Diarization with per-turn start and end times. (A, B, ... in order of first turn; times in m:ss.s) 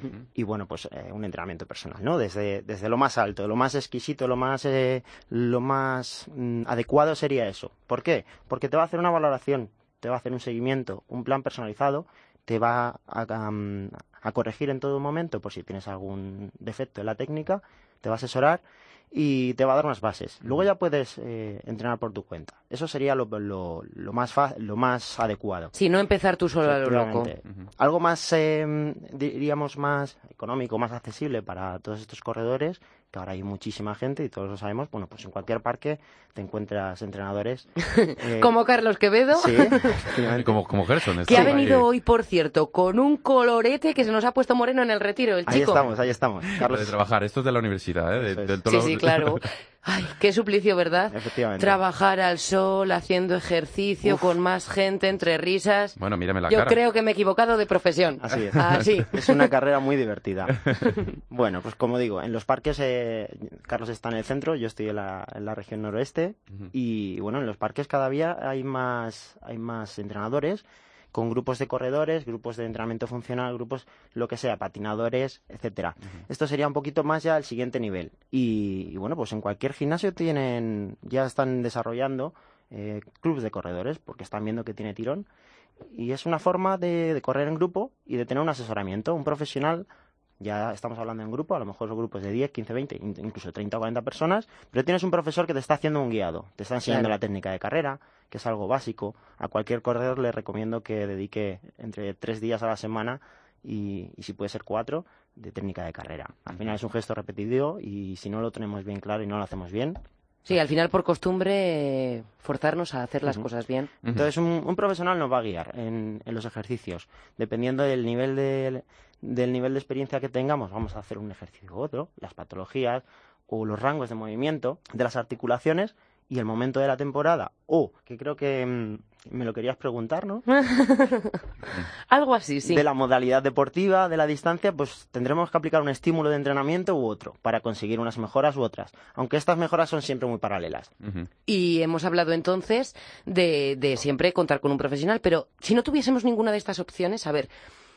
0:00.4-0:25.7 A
0:25.8-0:27.3 B
0:26.6-0:38.5 A
0:38.0-0:40.0 B
0:39.3-0:40.6 A
0:40.3-0:41.8 C
0:41.3-0:45.8 B
0:41.3-0:41.6 A
0:45.5-0:46.9 A
0:46.6-0:49.5 C
0:48.2-0:48.6 A
0:48.7-0:56.0 B
0:51.1-0:51.8 A
0:54.0-0:54.3 A
0:56.0-0:56.8 C
0:56.5-0:59.3 B
0:58.2-1:25.3 A
1:25.9-1:29.9 A
1:30.4-1:50.0 A
1:50.5-1:53.9 B
1:54.0-2:10.4 A
2:10.5-2:11.4 B
2:12.1-2:12.8 B
2:12.6-2:20.9 A
2:21.0-2:21.3 C
2:21.5-2:27.5 B